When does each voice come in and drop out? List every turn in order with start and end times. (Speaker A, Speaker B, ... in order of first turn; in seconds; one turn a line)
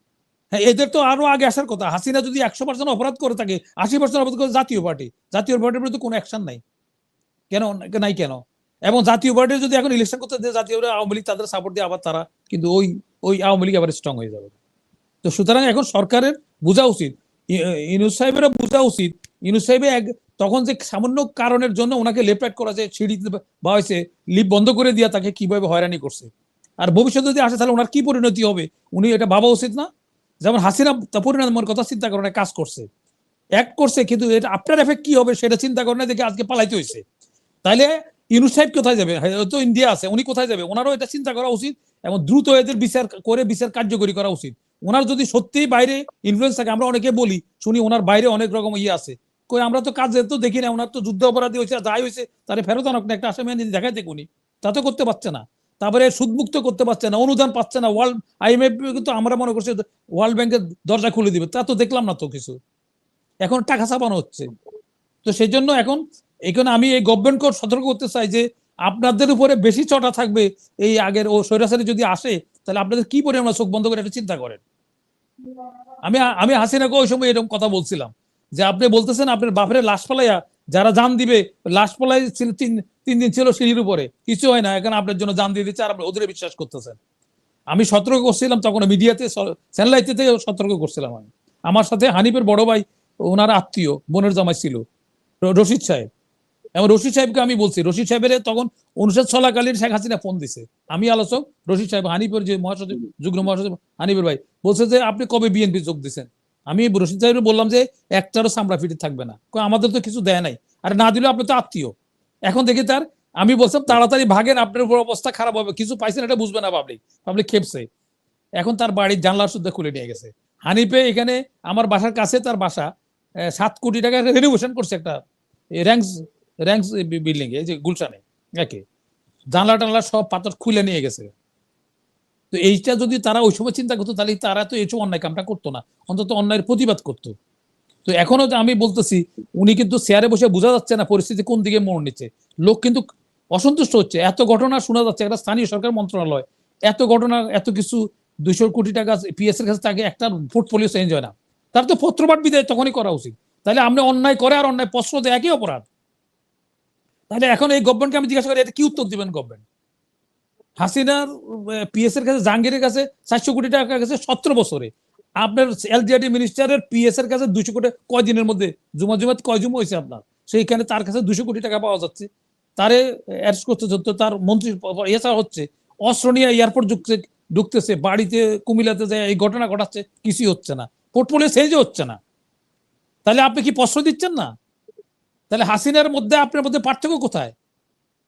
Speaker A: 0.5-6.6
Speaker A: 7.5-14.6
Speaker A: 15.2-29.9
Speaker A: 30.4-32.9
Speaker A: 33.6-37.0
Speaker A: 37.6-62.6
Speaker A: 63.4-64.5
Speaker A: 65.2-74.6
Speaker A: 76.0-87.0
Speaker A: 87.7-94.8
Speaker A: 95.4-96.1
Speaker A: 96.8-112.0
Speaker A: 112.5-117.9
Speaker A: 118.6-122.9
Speaker A: 123.5-125.2
Speaker A: 125.8-128.8
Speaker A: 129.5-131.3
Speaker A: 132.5-137.3
Speaker A: 138.1-155.9
Speaker A: 157.3-159.6
Speaker A: 160.8-182.2
Speaker A: 183.2-184.5
Speaker A: 185.5-187.5